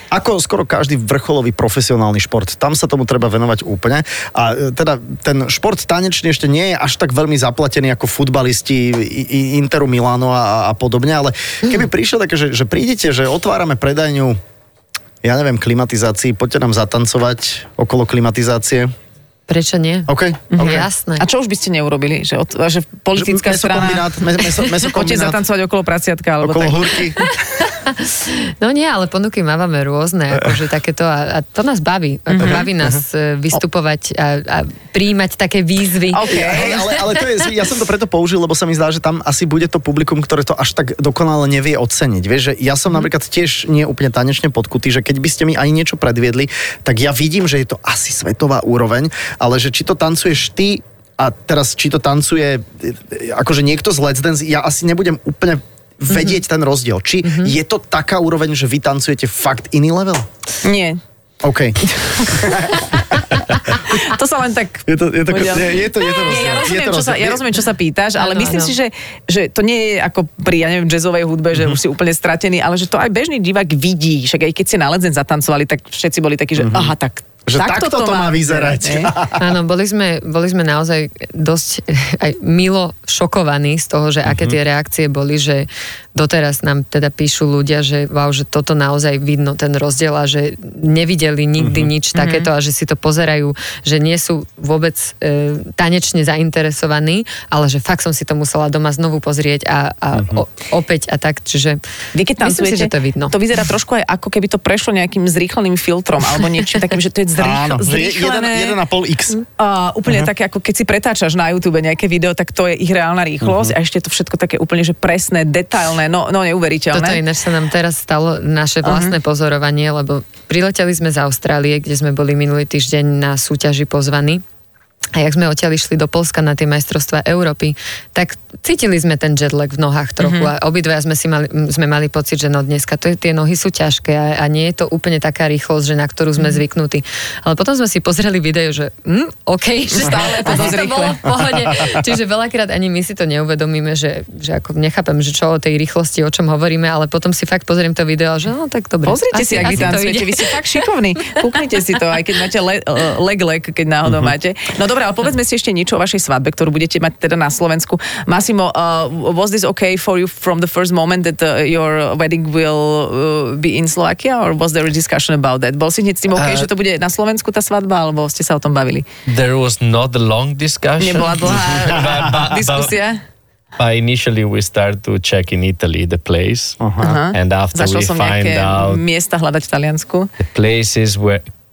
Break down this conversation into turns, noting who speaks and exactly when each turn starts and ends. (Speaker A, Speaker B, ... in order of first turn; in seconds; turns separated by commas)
Speaker A: 0.1-14.4, Speaker A: 15.2-18.9, Speaker B: 19.5-21.3, Speaker A: 20.1-20.9, Speaker C: 20.5-27.0, Speaker A: 23.1-25.4, Speaker A: 26.4-27.2, Speaker B: 27.2-37.3, Speaker C: 32.3-32.7, Speaker A: 32.4-33.0, Speaker C: 36.1-36.9, Speaker A: 36.3-60.3, Speaker B: 57.2-57.5, Speaker C: 60.6-61.0, Speaker A: 61.4-63.2, Speaker C: 61.9-79.1, Speaker A: 64.9-67.5, Speaker B: 68.2-68.8, Speaker A: 76.6-76.9, Speaker A: 77.5-79.5, Speaker B: 79.4-101.8, Speaker A: 84.3-84.5, Speaker A: 91.6-91.9, Speaker C: 92.2-92.5, Speaker A: 100.2-100.4, Speaker C: 102.2-108.8, Speaker B: 102.4-103.3, Speaker A: 107.4-109.4, Speaker C: 109.6-117.2, Speaker A: 113.4-113.8, Speaker B: 116.9-124.4, Speaker C: 118.8-119.2, Speaker B: 125.2-150.6, Speaker C: 130.2-130.5, Speaker C: 139.9-141.3, Speaker A: 141.3-142.0, Speaker C: 149.1-169.1, Speaker A: 149.6-149.9, Speaker A: 166.4-166.7, Speaker D: 169.3-173.0, Speaker C: 171.0-173.2, Speaker D: 173.8-176.8, Speaker A: 176.8-177.2, Speaker C: 177.0-180.3, Speaker D: 177.3-179.0, Speaker D: 180.4-181.5